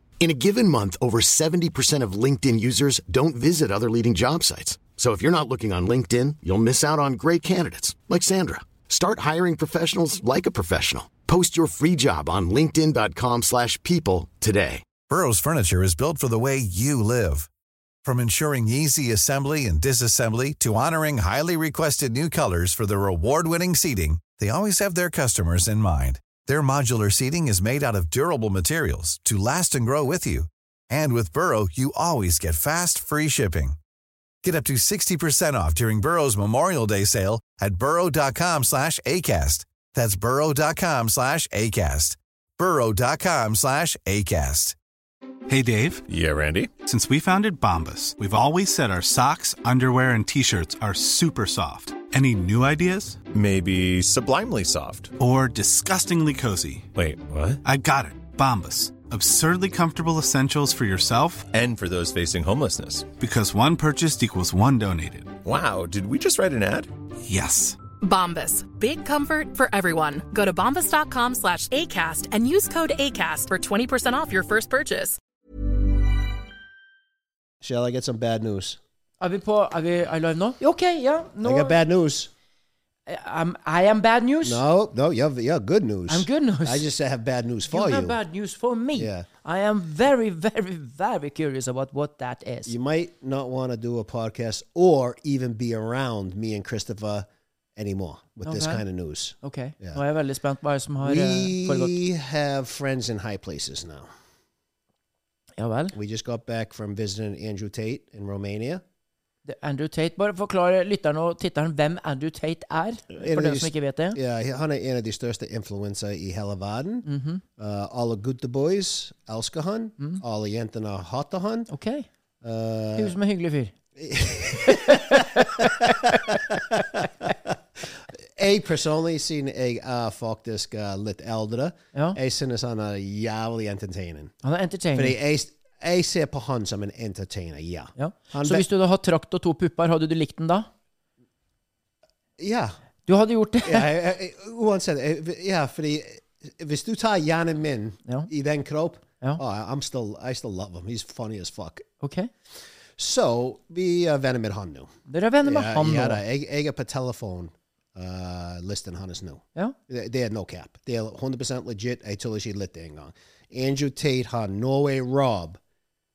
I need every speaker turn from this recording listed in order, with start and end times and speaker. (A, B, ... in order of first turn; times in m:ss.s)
0:00.2-0:14.9 A
0:15.1-0:17.5 B
0:18.0-0:33.8 B
0:34.4-0:44.8 B
0:45.5-0:46.0 C
0:46.1-0:46.7 D
0:46.8-0:53.2 C
0:53.3-0:55.1 D
0:55.2-0:56.9 C
0:57.0-0:57.6 D
0:57.6-1:01.5 C
1:01.6-1:03.1 D
1:03.2-1:05.3 C
1:05.4-1:06.9 D
1:07.2-1:07.8 C
1:08.0-1:15.2 E
1:17.6-1:18.8 F
1:19.2-1:21.8 G
1:21.4-1:22.3 F
1:23.1-1:24.6 G
1:24.4-1:28.2 F
1:26.1-1:26.9 G
1:27.7-1:32.8 G
1:29.0-1:29.3 F
1:32.7-1:40.0 F
1:38.4-1:38.8 G
1:39.4-1:42.0 G
1:41.0-1:44.1 F
1:45.6-1:46.0 G
1:45.9-1:48.8 F
1:49.4-1:54.2 G
1:53.1-1:57.1 F
1:57.0-1:57.4 G
1:57.6-2:01.7 F
2:01.7-2:02.1 G
2:02.4-2:03.2 F
2:03.0-2:03.7 G
2:04.0-2:14.4 F
2:04.6-2:06.6 G
2:14.4-2:15.2 G
2:14.9-2:18.6 F
2:18.0-2:20.7 G
2:22.4-2:22.8 F
2:23.1-2:23.9 G
2:23.6-2:31.9 F
2:32.0-2:32.3 G
2:33.0-2:34.9 F
2:35.1-2:36.2 G
2:35.4-2:45.6 F